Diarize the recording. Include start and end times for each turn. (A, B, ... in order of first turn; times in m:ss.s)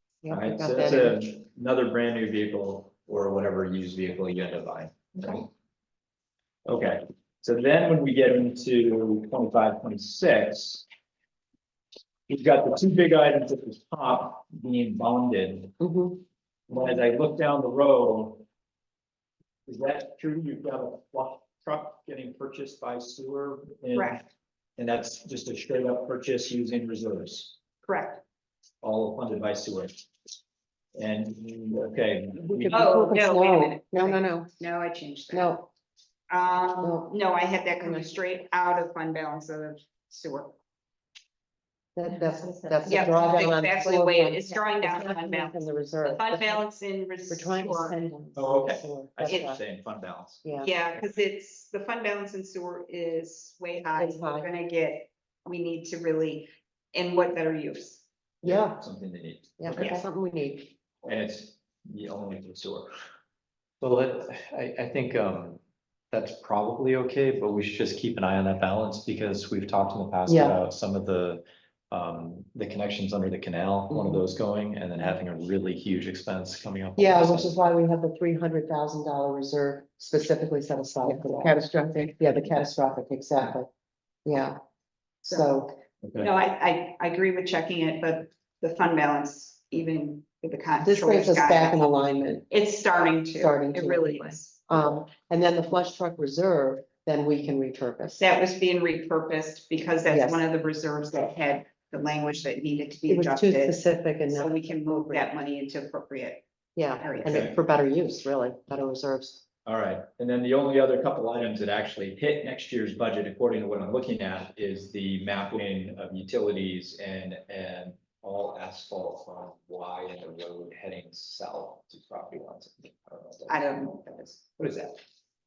0:00.2-0:01.2 A
0:00.3-0:05.5 B
0:06.7-0:10.8 B
0:12.3-0:15.7 B
0:15.8-0:16.2 A
0:16.7-0:18.4 B
0:19.7-0:27.6 B
0:23.9-0:24.2 C
0:27.8-0:28.2 C
0:28.8-0:30.0 B
0:30.9-0:33.0 B
0:32.4-0:34.5 A
0:32.7-0:35.6 C
0:35.3-0:35.7 A
0:36.3-0:40.6 C
0:36.8-0:37.1 A
0:37.8-0:38.1 A
0:42.0-0:46.7 A
0:42.8-0:48.0 C
0:47.3-0:49.6 A
0:48.3-0:50.4 B
0:49.3-0:49.5 C
0:50.4-0:50.7 A
0:50.6-0:58.0 C
0:53.9-0:54.5 A
0:58.4-0:58.8 A
0:58.4-1:00.0 B
0:59.6-1:00.7 A
0:59.7-1:00.0 C
1:01.0-1:02.9 B
1:03.8-1:05.6 D
1:06.1-1:17.5 D
1:10.3-1:10.6 A
1:17.0-1:23.7 A
1:24.2-1:24.6 A
1:25.2-1:25.5 C
1:25.2-1:25.7 A
1:26.0-1:26.3 B
1:26.2-1:31.9 C
1:30.8-1:32.4 A
1:32.5-1:34.6 C
1:33.3-1:38.2 A
1:38.2-1:47.5 C
1:40.0-1:40.4 A
1:43.1-1:45.3 A
1:46.8-1:49.4 A
1:47.2-1:47.6 B
1:49.7-2:04.0 B
2:03.5-2:04.4 C
2:04.6-2:05.0 B